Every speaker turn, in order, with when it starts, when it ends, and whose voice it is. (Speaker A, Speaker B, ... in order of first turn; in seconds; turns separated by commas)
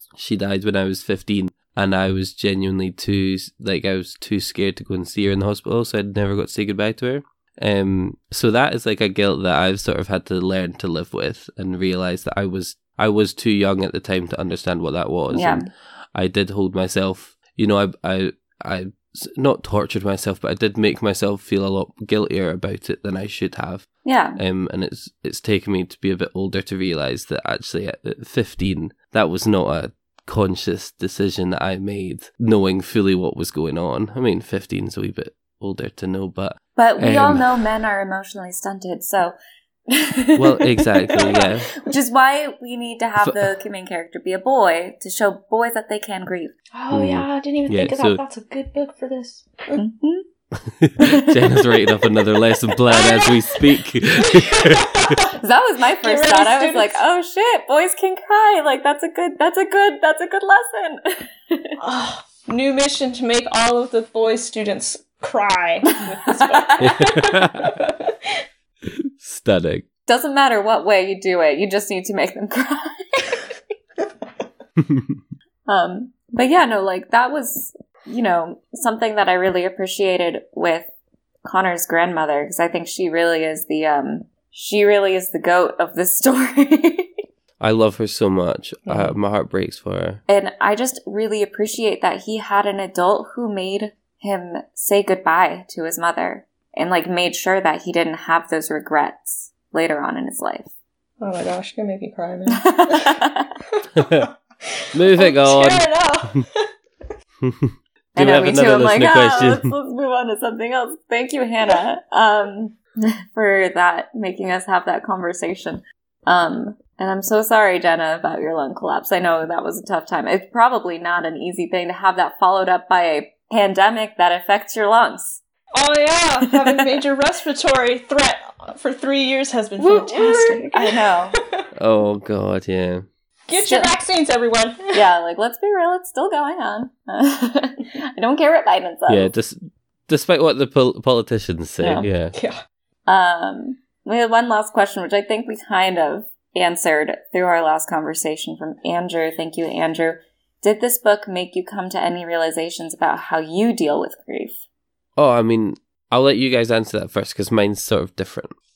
Speaker A: 0.1-37.4, Speaker B: 15.3-15.7, Speaker B: 24.0-24.4, Speaker B: 36.8-39.3, Speaker B: 39.9-46.5, Speaker A: 40.4-41.7, Speaker A: 43.2-43.5, Speaker C: 46.7-49.8, Speaker A: 46.9-48.2, Speaker B: 49.8-50.2, Speaker A: 50.7-55.1, Speaker C: 52.9-53.6, Speaker C: 54.3-55.4, Speaker B: 55.4-61.8, Speaker C: 56.0-57.0, Speaker C: 61.8-68.1, Speaker B: 66.4-66.7, Speaker A: 66.8-67.7, Speaker A: 69.2-69.8, Speaker B: 70.1-73.4, Speaker B: 75.7-80.9, Speaker B: 81.4-87.1, Speaker A: 87.6-90.2, Speaker C: 88.9-89.1, Speaker B: 90.3-100.7, Speaker C: 101.2-103.1, Speaker B: 102.5-103.5, Speaker C: 103.7-106.7, Speaker A: 104.0-104.3, Speaker A: 104.9-105.8, Speaker A: 107.4-109.7, Speaker B: 108.2-125.4, Speaker C: 125.7-131.6, Speaker B: 129.8-131.3, Speaker A: 131.8-133.1, Speaker C: 133.5-135.1, Speaker B: 133.5-133.9, Speaker B: 134.9-139.3, Speaker A: 139.1-142.3, Speaker B: 141.8-142.1, Speaker C: 142.3-142.6, Speaker B: 143.1-154.6, Speaker A: 155.2-158.5